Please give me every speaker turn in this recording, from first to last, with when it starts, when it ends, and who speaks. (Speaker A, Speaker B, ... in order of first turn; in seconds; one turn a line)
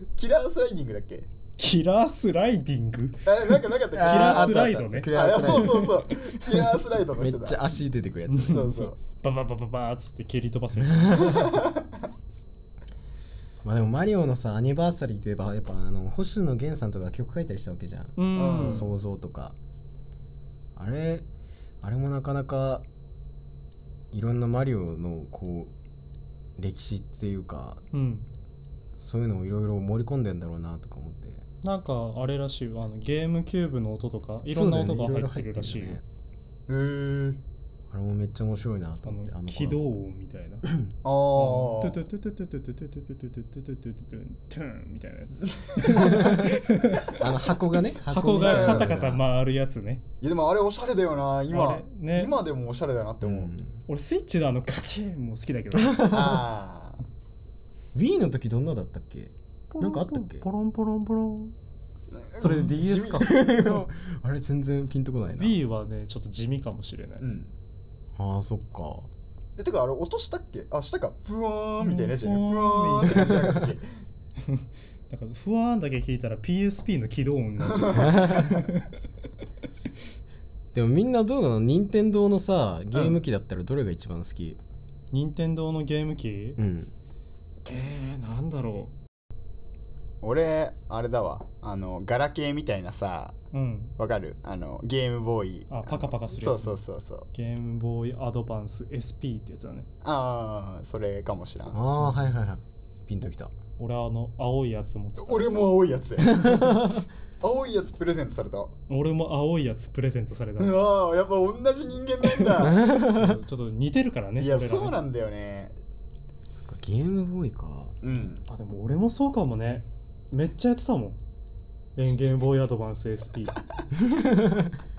Speaker A: 0.2-1.3
Speaker B: 1.6-6.3
Speaker A: 3.3-7.6
Speaker C: 3.9-6.0
Speaker C: 7.2-8.8
Speaker B: 8.3-11.6
Speaker A: 8.5-9.0
Speaker C: 10.8-11.5
Speaker A: 11.2-11.8
Speaker C: 13.6-19.6
Speaker B: 18.2-18.9
Speaker A: 18.4-18.9
Speaker C: 20.8-21.3
Speaker C: 21.8-22.9
Speaker C: 24.1-25.7
Speaker C: 26.6-27.8
Speaker B: 27.9-28.3
Speaker C: 29.0-31.4
Speaker B: 31.6-36.0
Speaker C: 34.5-36.0
Speaker A: 36.7-37.4
Speaker C: 37.9-39.8
Speaker B: 39.1-40.7
Speaker C: 40.6-40.9
Speaker A: 41.0-42.0
Speaker B: 41.4-47.2
Speaker A: 45.7-46.5
Speaker C: 45.9-46.6
Speaker C: 47.1-49.2
Speaker B: 48.1-50.0
Speaker A: 48.4-48.9
Speaker A: 50.2-53.5
Speaker B: 51.5-52.3
Speaker C: 53.2-53.8
Speaker B: 53.9-56.1
Speaker C: 55.8-56.4
Speaker A: 56.1-57.0
Speaker C: 57.9-60.5
Speaker B: 59.7-61.5
Speaker A: 62.1-63.4
Speaker B: 62.4-63.5
Speaker C: 63.1-65.6
Speaker B: 65.4-67.2
Speaker A: 67.2-67.5
Speaker C: 68.2-69.1
Speaker A: 69.6-73.9
Speaker B: 71.8-73.4
Speaker C: 73.1-73.6
Speaker B: 74.4-78.9
Speaker A: 77.6-78.5
Speaker C: 77.9-78.7
Speaker C: 80.7-84.6
Speaker A: 82.9-83.2
Speaker B: 85.1-86.6
Speaker C: 86.6-86.9
Speaker B: 87.7-88.9
Speaker A: 90.2-93.4
Speaker B: 93.5-93.9
Speaker A: 94.0-97.3
Speaker B: 95.7-96.8
Speaker B: 97.3-99.9
Speaker A: 100.0-101.8
Speaker C: 101.7-103.5
Speaker B: 102.0-102.3
Speaker B: 103.8-105.6
Speaker A: 105.2-108.7
Speaker C: 106.3-107.0
Speaker B: 108.9-110.8
Speaker A: 110.6-112.8
Speaker B: 112.5-115.0
Speaker C: 112.6-113.4
Speaker A: 114.4-115.7
Speaker C: 116.6-117.9
Speaker A: 118.0-118.4
Speaker B: 118.5-121.2
Speaker B: 122.0-123.6
Speaker C: 124.0-124.7